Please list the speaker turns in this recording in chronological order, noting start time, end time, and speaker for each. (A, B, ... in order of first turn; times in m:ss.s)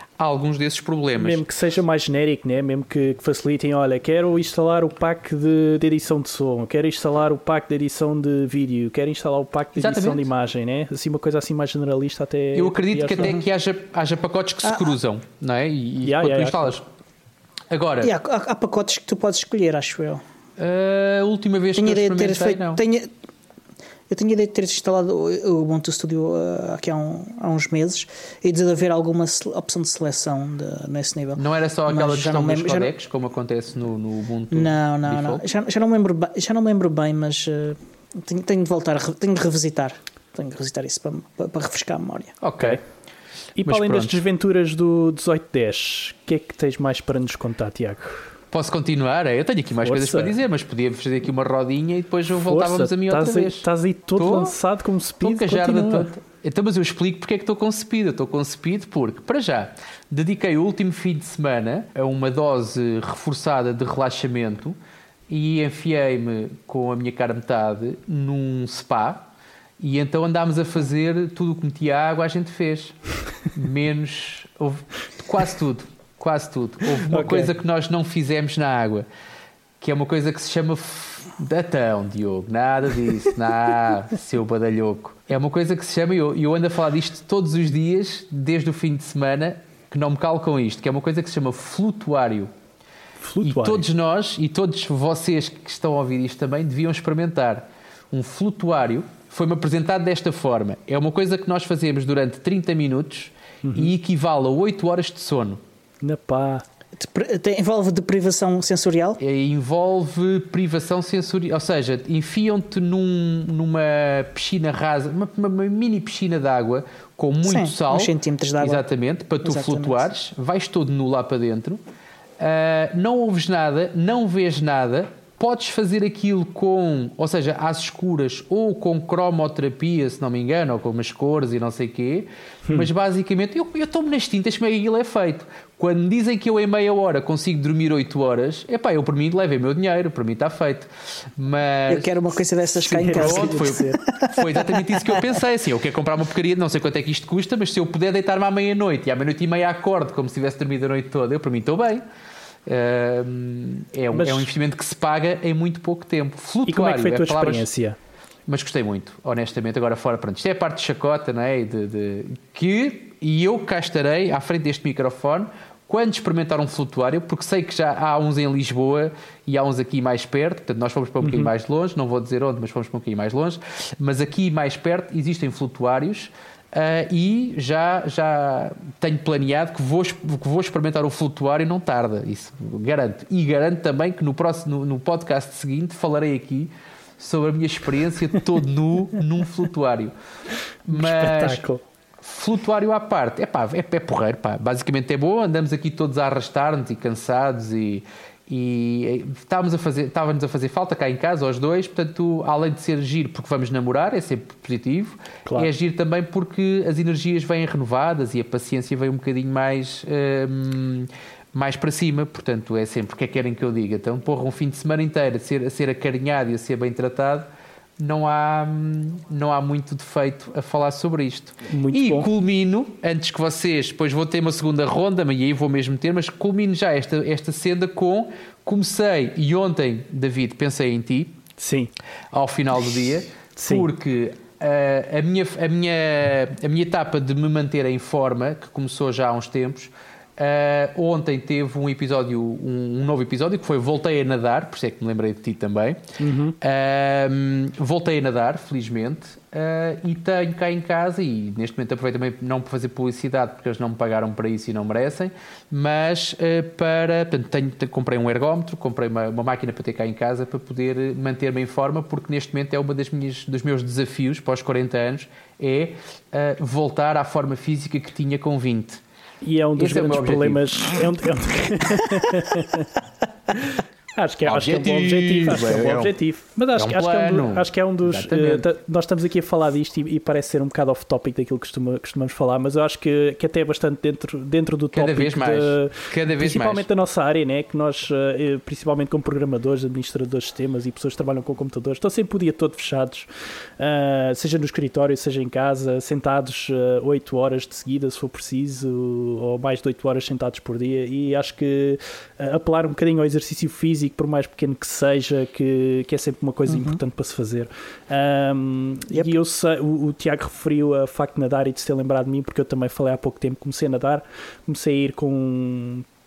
0:00.2-0:01.4 A
0:01.2-0:13.4 B
0:09.8-0:10.2 A
0:12.5-0:16.8 A
0:14.6-0:14.9 C
0:16.0-0:16.7 B
0:17.7-0:18.1 A
0:18.0-0:20.2 C
0:20.6-0:22.8 A
0:21.8-0:23.1 C
0:24.1-0:32.9 C
0:31.4-0:35.4 A
0:34.5-0:42.4 C
0:42.4-0:42.8 A
0:43.6-0:48.3 B
0:43.6-0:44.2 A
0:48.5-0:54.5 A
0:49.8-0:50.4 B
0:52.3-0:56.1 B
0:55.2-1:04.8 A
1:05.3-1:09.3 A
1:09.8-1:13.0 A
1:13.5-1:19.0 A
1:17.1-1:17.5 B
1:19.8-1:32.5 A
1:33.2-1:33.8 B
1:33.4-1:45.6 A
1:43.6-1:43.9 B
1:46.0-1:46.6 B
1:47.0-1:49.2 C
1:49.2-2:01.8 A
1:57.4-1:58.8 C
1:59.4-2:00.1 C
2:02.4-2:22.2 A
2:21.9-2:25.2 C
2:22.8-2:24.0 B
2:23.0-2:32.0 A
2:32.6-2:37.7 A
2:34.1-2:34.5 B
2:36.7-2:38.0 B
2:38.5-3:10.1 A
2:51.2-2:51.5 B
3:10.8-3:11.6 A
3:10.9-3:11.8 B
3:12.2-3:37.5 A
3:25.4-3:25.7 B
3:38.0-3:51.4 A
3:41.7-3:42.3 B
3:51.6-3:51.9 B
3:52.3-4:06.0 A
3:53.6-3:53.9 B
4:06.2-4:06.6 B
4:06.6-4:29.0 A
4:29.4-4:32.9 B
4:29.8-4:31.0 A
4:33.5-4:53.3 B
4:34.4-4:36.1 A
4:36.8-4:38.6 A
4:44.9-4:46.9 A
4:53.8-5:16.0 B
5:06.6-5:07.0 C